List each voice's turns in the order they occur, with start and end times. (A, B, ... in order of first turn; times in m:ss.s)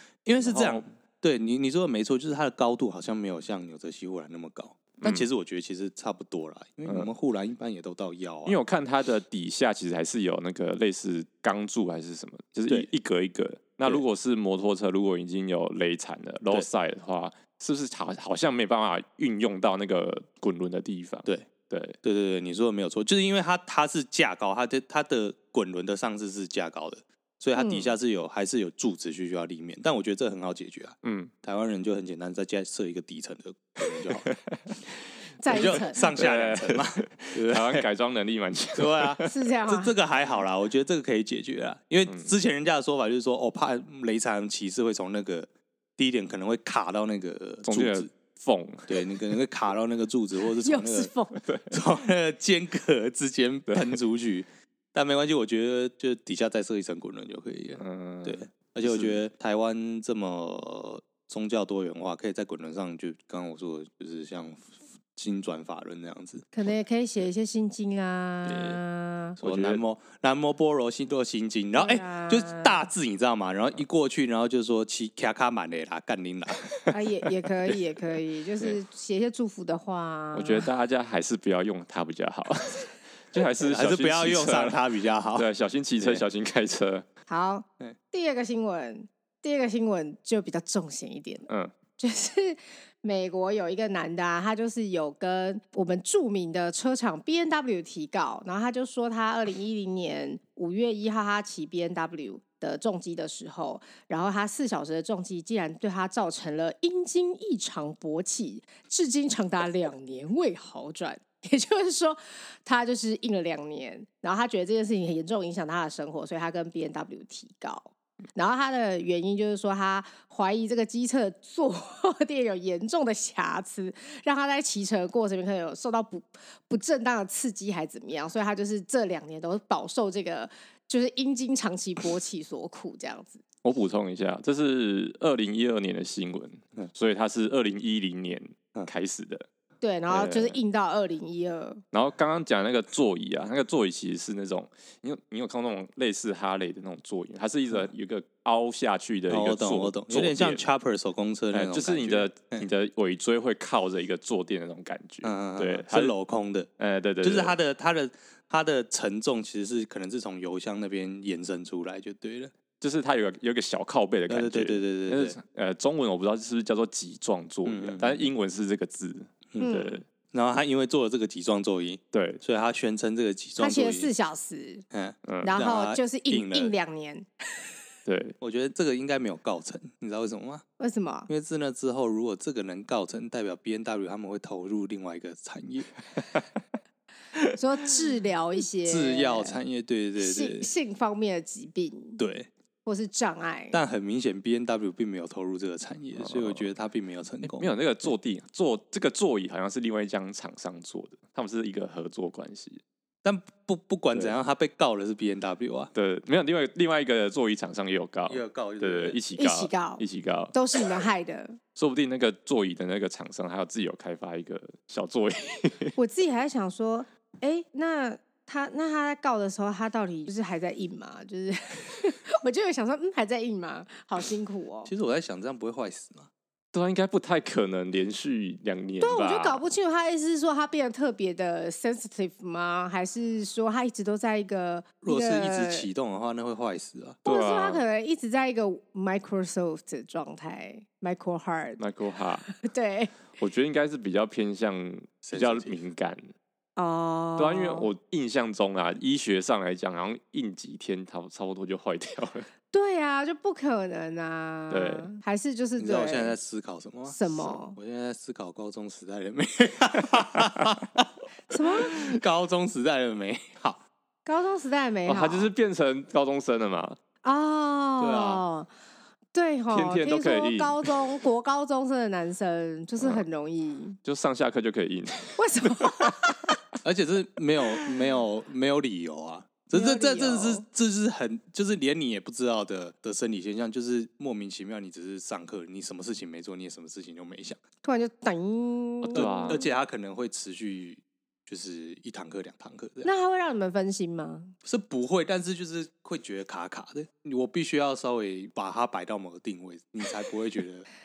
0:00.2-0:08.6 A
0:00.4-0:00.8 B
0:05.0-0:05.3 B
0:08.4-0:22.0 B
0:22.0-0:34.3 A
0:27.6-0:27.9 C
0:31.0-0:31.3 B
0:34.2-0:34.7 B
0:35.4-0:36.1 C
0:35.5-0:37.9 A
0:35.6-0:39.3 B
0:38.8-0:48.1 A
0:39.3-0:39.9 C
0:42.1-0:42.3 B
0:47.6-0:48.9 B
0:48.9-0:51.1 A
0:50.6-0:51.4 C
0:51.4-0:51.7 B
0:51.7-1:06.5 A
0:53.7-0:53.9 B
0:57.8-0:59.2 B
1:06.5-1:09.4 C
1:08.4-1:08.8 A
1:09.4-1:16.6 A
1:09.4-1:09.8 B
1:11.7-1:12.8 C
1:16.9-1:20.7 C
1:20.3-1:24.8 B
1:23.6-1:25.5 A
1:25.3-1:27.1 B
1:27.3-1:31.5 C
1:31.5-1:31.7 B
1:32.0-2:13.4 C
2:13.6-2:19.5 B
2:19.8-2:21.8 C
2:20.1-2:20.6 B
2:21.9-2:30.7 B
2:29.3-2:32.7 A
2:31.5-2:36.1 B
2:35.2-2:36.7 A
2:36.8-2:37.6 B
2:37.2-2:42.5 A
2:42.8-2:50.0 B
2:44.3-2:45.4 A
2:47.6-2:48.3 A
2:49.5-2:54.1 A
2:49.6-2:50.0 C
2:52.1-2:52.4 B
2:53.6-2:54.8 C
2:54.9-2:56.7 A
2:55.3-2:55.5 B
2:55.4-2:57.7 C
2:58.1-2:58.4 B
2:58.4-3:00.6 A
3:00.8-3:01.3 C
3:01.3-3:05.9 A
3:07.5-3:09.6 C
3:08.9-3:10.7 A
3:10.2-3:12.2 C
3:12.2-3:12.5 A
3:12.8-3:13.8 C
3:13.7-3:18.1 A
3:16.2-3:16.7 B
3:17.4-3:22.8 B
3:23.2-3:25.9 A
3:25.9-3:30.6 B
3:28.3-3:29.2 A
3:29.4-3:31.6 C
3:31.8-3:35.9 B
3:36.0-3:44.9 C
3:44.9-3:46.3 A
3:46.7-3:49.6 B
3:49.0-3:55.9 C
3:55.0-3:57.2 A
3:57.2-3:57.8 B
3:57.2-4:01.8 C
4:01.8-4:02.5 B
4:02.5-4:03.2 C
4:03.4-4:06.3 B
4:05.2-4:05.8 A
4:06.8-4:07.9 C
4:07.4-4:12.5 B
4:12.7-4:16.4 C
4:14.7-4:15.1 B
4:15.8-4:23.8 A
4:17.1-4:17.8 C
4:21.5-4:22.2 C
4:24.2-4:25.5 C
4:25.1-4:27.0 B
4:27.2-4:28.7 C
4:28.0-4:28.4 A
4:29.3-4:34.0 C
4:29.7-4:31.0 B
4:33.0-4:33.2 B
4:34.0-4:36.6 B
4:35.4-4:36.3 C
4:36.8-4:47.6 A
4:39.7-4:40.6 C
4:47.8-4:49.6 C
4:49.1-4:53.1 A
4:49.1-4:49.6 B
4:53.0-4:54.5 C
4:54.6-5:00.9 A